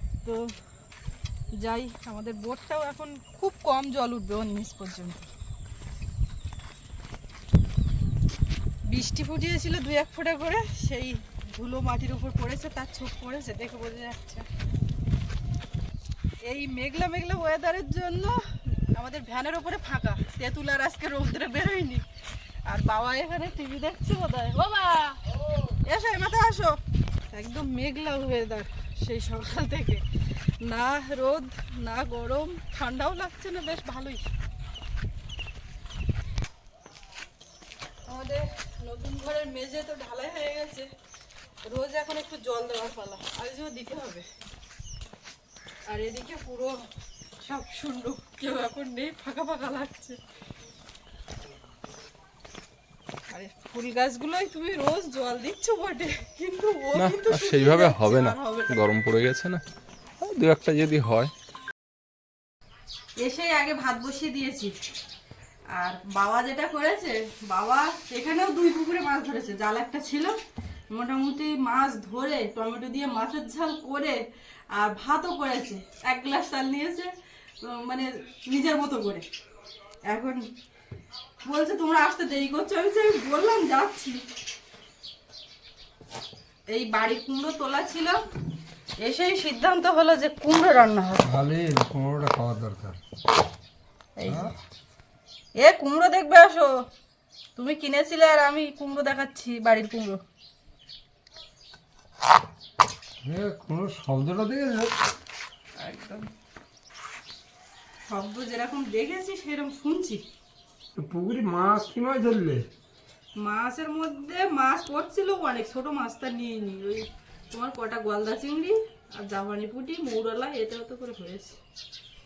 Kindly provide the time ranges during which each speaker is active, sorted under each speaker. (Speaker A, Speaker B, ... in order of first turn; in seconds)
Speaker A: 1.6-5.3, 8.9-14.4, 16.4-22.0, 22.7-25.2, 25.8-26.8, 27.3-30.0, 30.6-34.3, 38.1-40.9, 41.6-44.3, 45.9-46.8, 47.4-50.2, 53.3-58.9, 63.2-64.7, 65.7-70.4, 70.9-74.2, 74.7-79.2, 80.1-80.4, 81.4-84.2, 86.7-88.2, 89.0-91.2, 94.2-94.5, 95.6-96.8, 97.6-100.2, 105.8-106.3, 108.1-110.2, 113.4-121.6
Speaker B: 56.9-59.6, 60.2-61.3
Speaker C: 91.2-93.0, 94.3-94.5, 103.2-105.0, 110.9-112.6